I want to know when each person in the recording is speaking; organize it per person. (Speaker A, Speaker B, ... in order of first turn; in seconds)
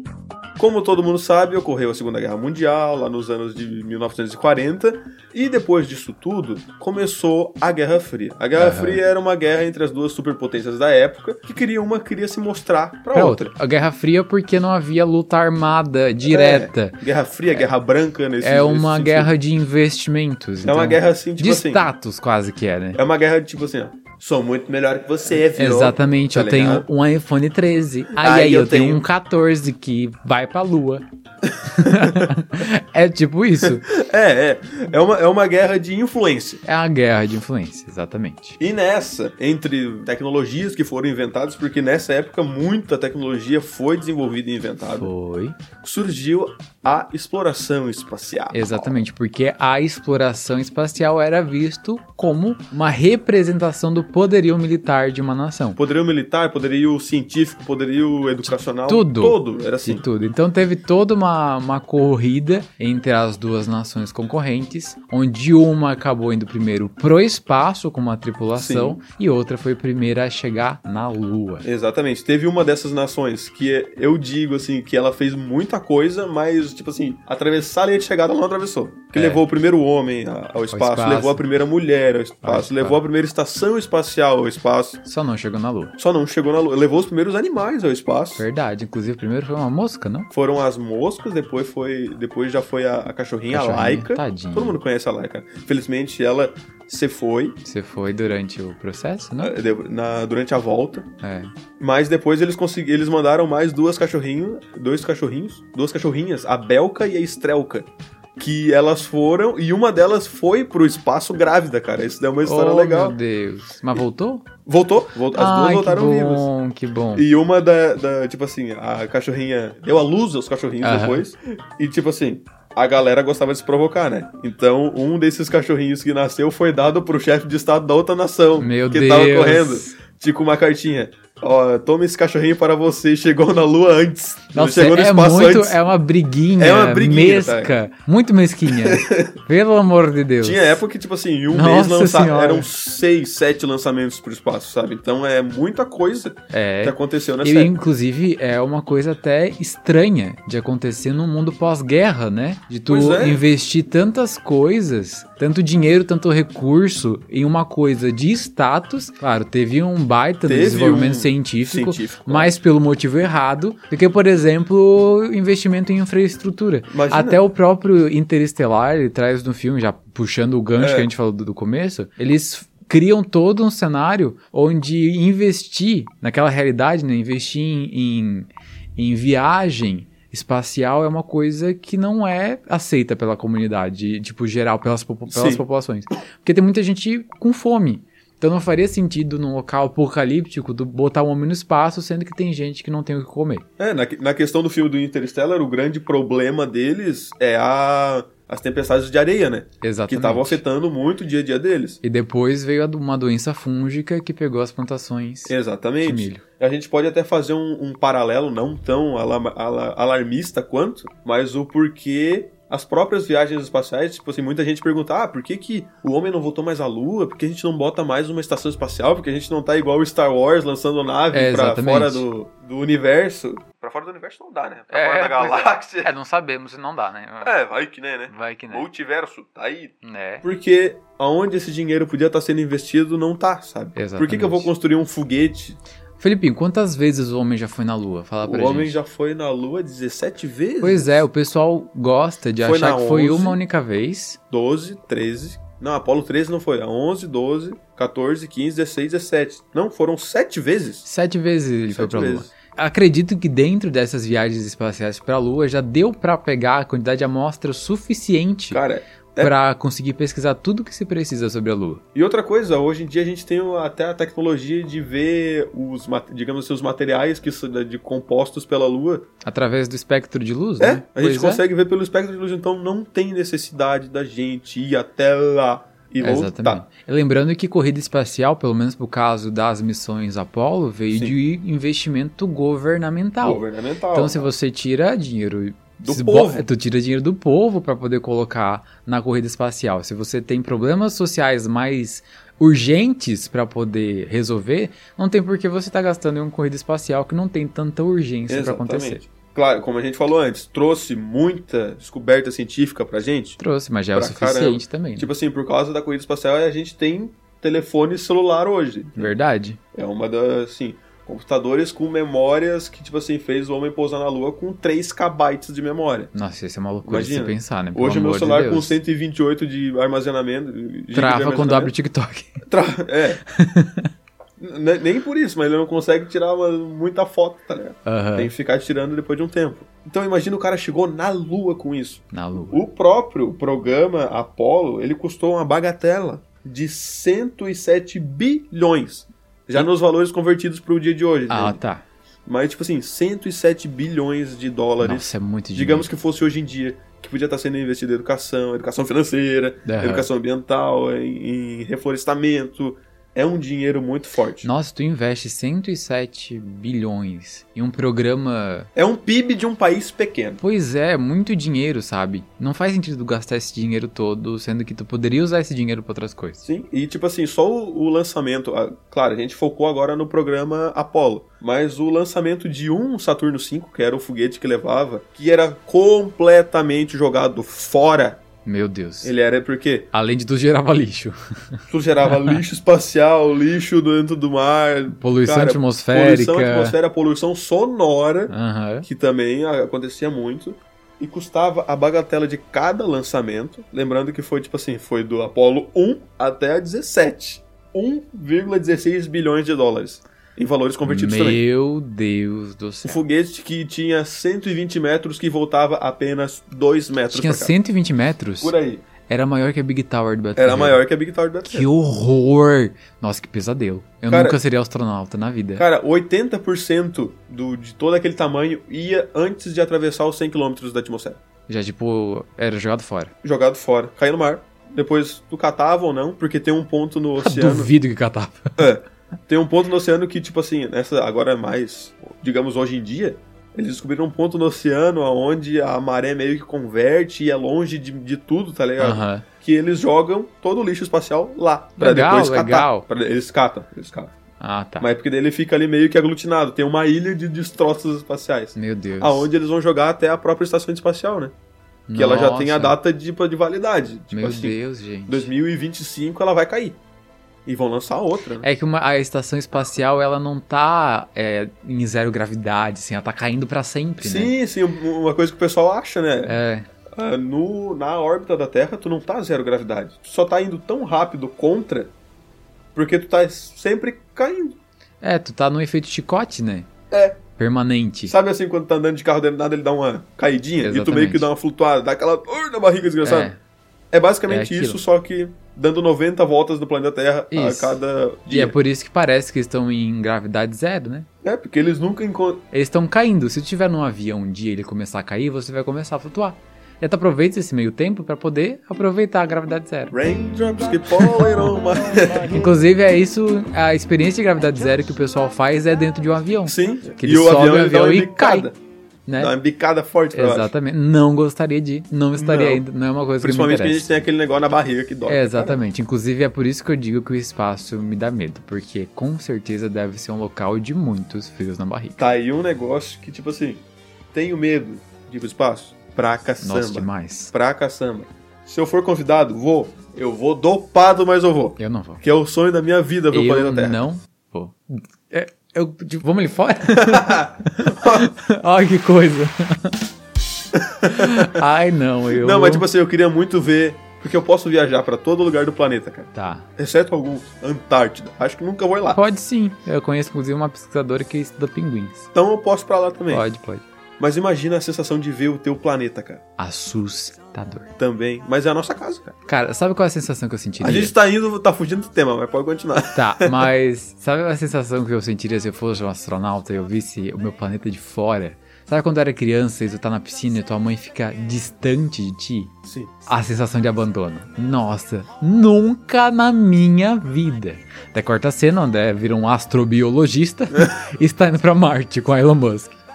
Speaker A: 0.6-13.5, 16.3-19.3, 20.6-21.9, 22.9-26.9, 28.1-29.0, 31.5-32.3, 33.6-36.6, 38.6-45.1, 45.8-49.0, 55.8-60.0, 68.5-69.0, 71.6-85.0, 86.0-88.4, 90.3-97.6, 99.4-101.1, 101.8-113.2, 114.7-116.5, 117.1-135.8, 136.6-137.7, 138.7-139.4, 140.4-147.7, 152.9-153.4, 160.4-162.5, 166.9-167.4, 170.8-171.1, 185.3-185.6, 193.8-202.0, 205.5-226.1, 227.4-235.8, 238.4-241.2, 242.6-243.6, 244.5-251.1, 251.9-252.5, 258.7-259.5, 262.1-269.2, 270.8-276.8, 283.4-284.5, 286.0-286.7, 298.5-303.6, 304.1-309.3, 309.9-316.3, 317.0-321.9, 322.7-323.4, 324.6-341.8, 342.4-354.7, 358.9-360.6, 366.6-378.4, 379.2-380.1, 381.9-388.5, 389.0-401.6, 403.0-407.7, 408.6-409.0, 410.6-411.9, 414.3-414.6, 415.8-421.4, 423.4-427.9, 428.8-444.3, 445.0-451.5, 452.1-454.8, 455.3-457.0, 457.6-458.6, 464.2-466.6, 467.1-472.1, 472.9-474.8, 477.1-477.4, 478.3-483.5, 484.1-488.7, 491.4-492.6, 500.1-502.7, 506.6-508.8, 509.4-510.7, 512.3-512.8, 513.4-515.8, 522.2-523.8, 524.3-534.0, 536.9-538.3, 540.7-541.6, 542.3-549.2, 552.3-553.4, 554.2-556.4, 558.0-559.3, 560.8-563.7, 572.9-573.1
Speaker B: 8.5-9.0, 13.1-17.7, 18.4-23.0, 25.6-31.0, 31.6-33.9, 36.6-38.6, 45.0-45.5, 48.5-55.8, 58.4-71.7, 79.1-79.4, 80.7-81.4, 82.4-83.0, 85.0-86.0, 88.4-90.3, 93.5-94.8, 97.6-99.5, 101.2-101.5, 112.4-114.5, 115.3-117.2, 120.8-121.2, 128.6-129.9, 134.5-140.8, 141.5-142.7, 146.5-193.7, 199.8-200.6, 202.0-206.4, 221.3-222.2, 224.9-227.6, 228.3-228.9, 230.0-230.4, 233.9-234.7, 236.2-238.9, 240.8-244.4, 251.0-258.8, 259.4-262.0, 269.4-271.6, 276.2-283.6, 284.1-299.2, 303.6-305.3, 309.2-309.8, 316.3-318.9, 321.1-322.6, 323.5-324.1, 328.1-328.5, 332.3-332.9, 341.5-342.0, 345.0-346.1, 349.8-350.3, 354.6-358.9, 360.6-366.6, 378.6-379.3, 380.1-382.6, 385.1-386.9, 388.5-389.1, 401.0-403.2, 407.3-408.7, 409.3-411.0, 411.6-415.8, 421.7-423.3, 427.4-428.9, 439.0-439.4, 442.0-443.1, 444.6-445.1, 448.8-449.4, 452.1-452.9, 454.3-455.5, 458.6-464.5, 466.4-466.9, 475.2-476.9, 477.6-478.3, 480.8-481.5, 483.2-483.6, 484.5-485.0, 487.5-491.3, 492.7-500.1, 502.4-508.7, 509.3-509.5, 510.3-514.1, 515.2-522.2, 526.6-527.5, 531.8-532.2, 533.3-540.0, 541.1-542.9, 546.3-546.6, 549.1-552.3, 553.3-553.8, 556.6-557.9, 559.5-561.1, 563.1-572.7, 573.3-583.0